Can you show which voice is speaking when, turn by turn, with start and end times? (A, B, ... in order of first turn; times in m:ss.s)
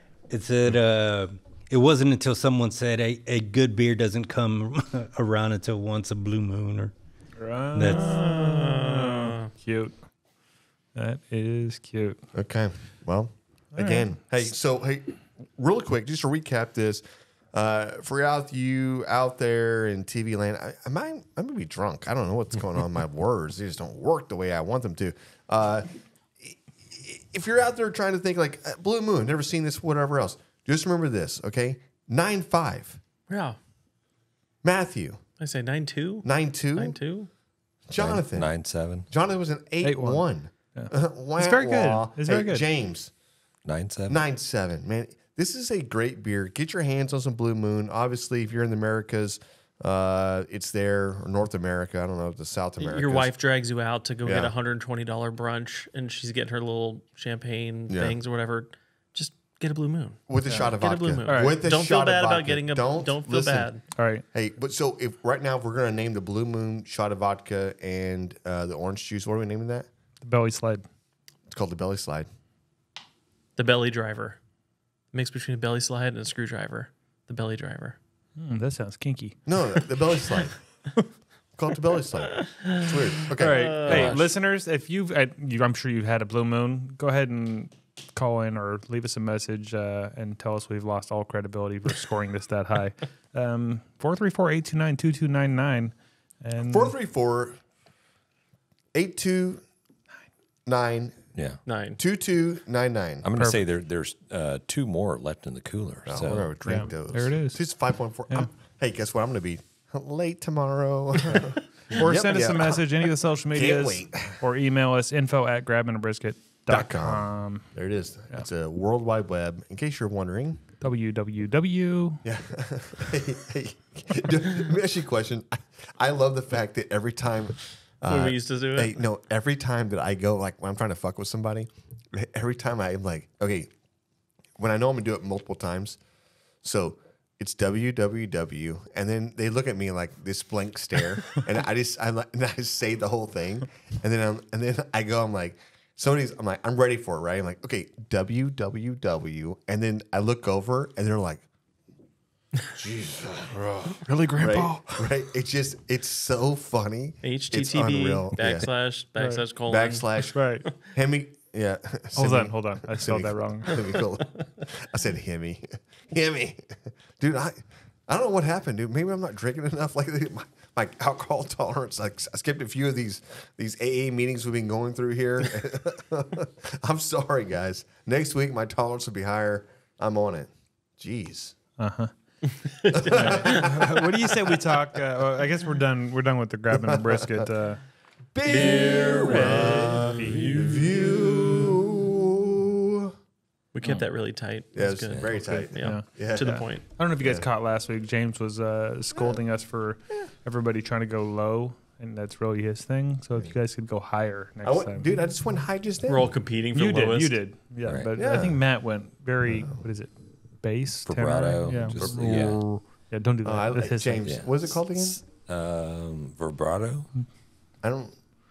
0:00.3-0:06.9 A
0:07.4-0:09.9 B
0:07.7-0:08.2 A
0:07.9-0:09.4 C
0:10.9-0:12.2 B
0:12.3-0:25.9 D
0:13.8-0:14.1 B
0:26.4-0:33.0 D
0:33.3-0:33.6 C
0:34.6-0:35.2 D
0:35.4-0:37.3 C
0:36.2-0:37.0 D
0:37.9-0:38.5 D
0:38.0-0:39.1 E
0:39.1-0:43.1 D
0:39.8-0:40.2 B
0:40.7-0:42.6 B
0:43.6-0:44.2 E
0:44.1-0:53.3 D
0:52.8-1:03.8 C
0:54.2-0:54.5 D
0:57.9-0:58.2 D
1:00.3-1:03.7 D
1:00.4-1:00.7 B
1:01.2-1:01.6 B
1:04.0-1:04.2 B
1:04.3-1:09.9 D
1:10.2-1:10.8 B
1:11.5-1:12.3 D
1:13.6-1:14.4 C
1:15.1-1:18.0 C
1:18.4-1:19.8 B
1:19.4-1:20.6 D
1:21.6-1:24.1 D
1:22.4-1:24.3 C
1:23.4-1:36.9 B
1:23.8-1:24.1 E
1:36.6-1:37.6 D
1:38.9-1:39.6 D
1:40.6-1:41.2 D
1:41.3-1:41.6 E
1:41.7-1:42.0 C
1:42.0-1:43.3 D
1:43.2-1:46.4 E
1:46.0-1:54.4 D
1:46.6-1:47.6 B
1:51.9-1:57.7 B
1:56.7-2:00.6 D
2:00.8-2:02.2 B
2:02.2-2:13.7 D
2:08.1-2:09.0 C
2:14.6-2:16.0 D
2:16.6-2:31.4 D
2:32.7-2:38.7 D
2:33.9-2:34.9 B
2:37.2-2:40.7 C
2:39.2-2:39.4 B
2:39.6-3:01.6 D
2:40.3-2:40.6 B
2:42.2-2:43.8 B
3:01.8-3:02.1 B
3:02.5-3:03.7 C
3:02.9-3:05.0 D
3:03.1-3:07.8 B
3:06.7-3:07.5 D
3:08.3-3:13.1 D
3:08.4-3:11.0 C
3:08.5-3:11.7 B
3:13.7-3:16.8 C
3:14.7-3:16.6 D
3:15.8-3:25.2 B
3:17.2-3:17.5 D
3:19.1-3:19.4 D
3:24.6-3:26.3 D
3:26.0-3:27.4 C
3:26.7-3:34.2 B
3:28.1-3:28.6 D
3:29.4-3:29.8 D
3:31.1-3:32.6 E
3:33.4-3:35.2 D
3:34.2-3:37.1 E
3:37.8-3:38.1 D